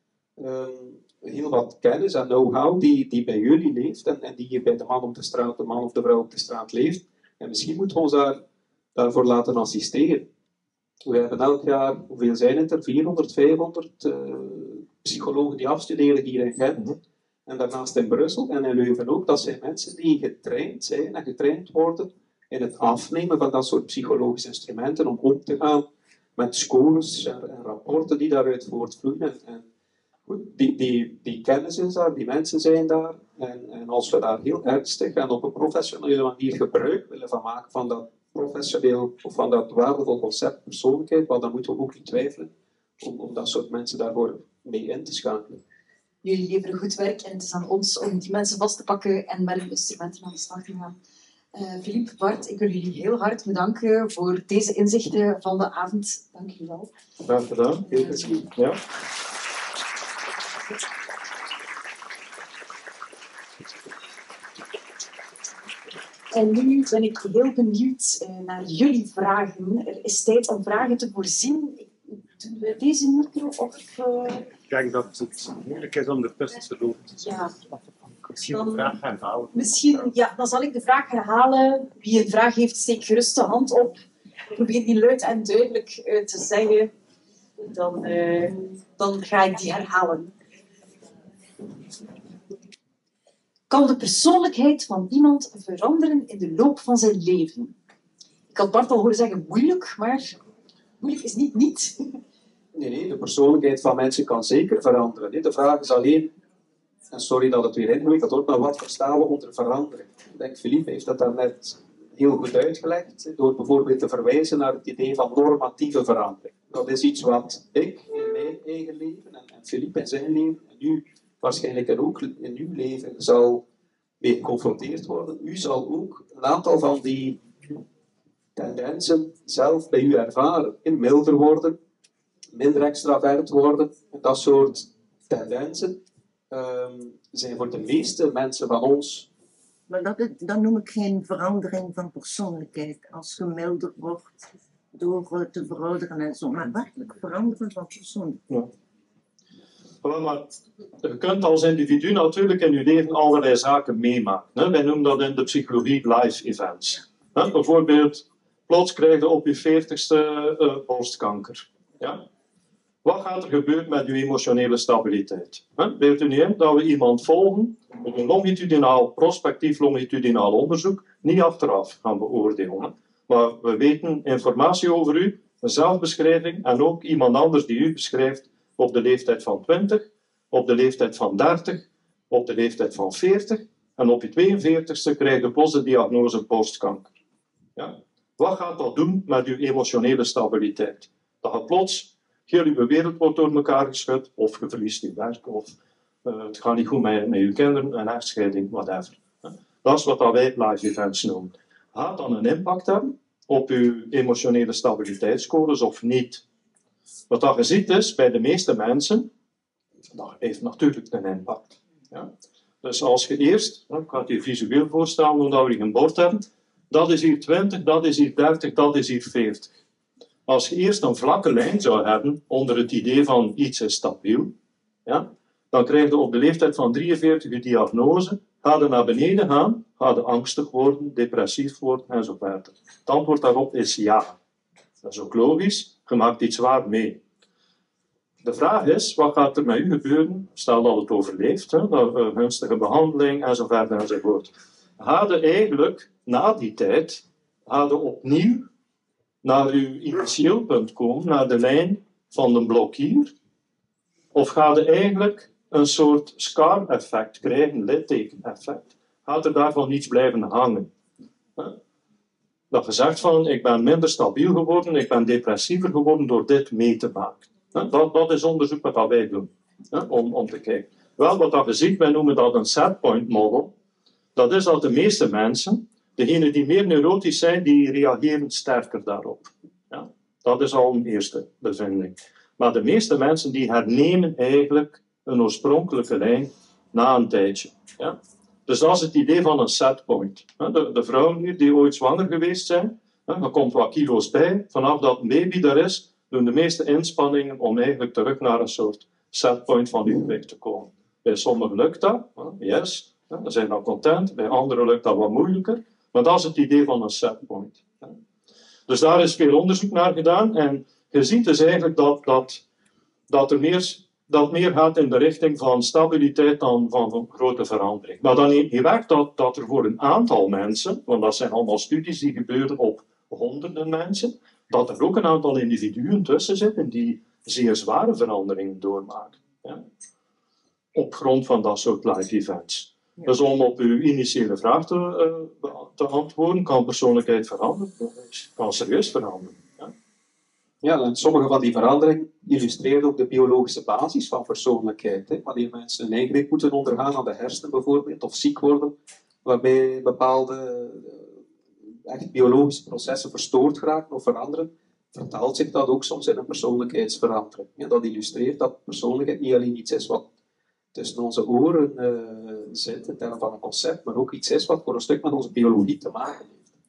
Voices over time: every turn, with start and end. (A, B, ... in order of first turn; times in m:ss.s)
0:00.4-0:08.4 A
0:08.9-0:10.3 A
0:11.0-0:17.0 A
0:17.5-0:25.9 A
0:26.4-0:29.7 A
0:30.3-0:45.6 A
0:46.2-0:51.0 B
0:51.5-0:56.9 B
0:57.3-0:57.9 C
0:57.9-0:58.4 A
0:58.5-0:58.8 C
1:06.3-1:14.5 B
1:14.7-1:17.2 D
1:17.2-1:17.5 B
1:18.2-1:19.7 D
1:18.5-1:18.9 B
1:19.5-1:26.9 B
1:27.6-1:30.3 B
1:33.7-1:37.7 B
1:38.5-1:40.4 B
1:41.0-1:42.1 B
1:42.7-1:46.3 A
1:47.1-2:03.6 A
2:04.2-2:07.4 A
2:08.6-2:11.8 A
2:12.5-2:19.3 A
2:19.9-2:24.3 E
2:24.9-2:28.4 E
2:30.0-2:42.3 C
2:43.0-3:07.1 C
3:07.8-3:15.7 C
3:16.2-3:26.4 C
3:27.3-3:29.3 C
3:30.1-3:32.3 C
3:32.8-3:39.7 C
3:40.5-3:44.5 C
3:45.0-3:54.3 C
3:55.0-3:57.2 C
3:58.4-4:08.7 C
4:09.4-4:13.3 C
4:14.3-4:20.9 C
4:22.7-4:33.7 C
4:34.4-5:08.1 C
5:08.9-5:12.6 C
5:13.3-5:29.8 C
5:30.9-5:39.9 C
5:40.8-5:51.3 A
5:52.0-6:00.3 A
6:00.9-6:06.7 A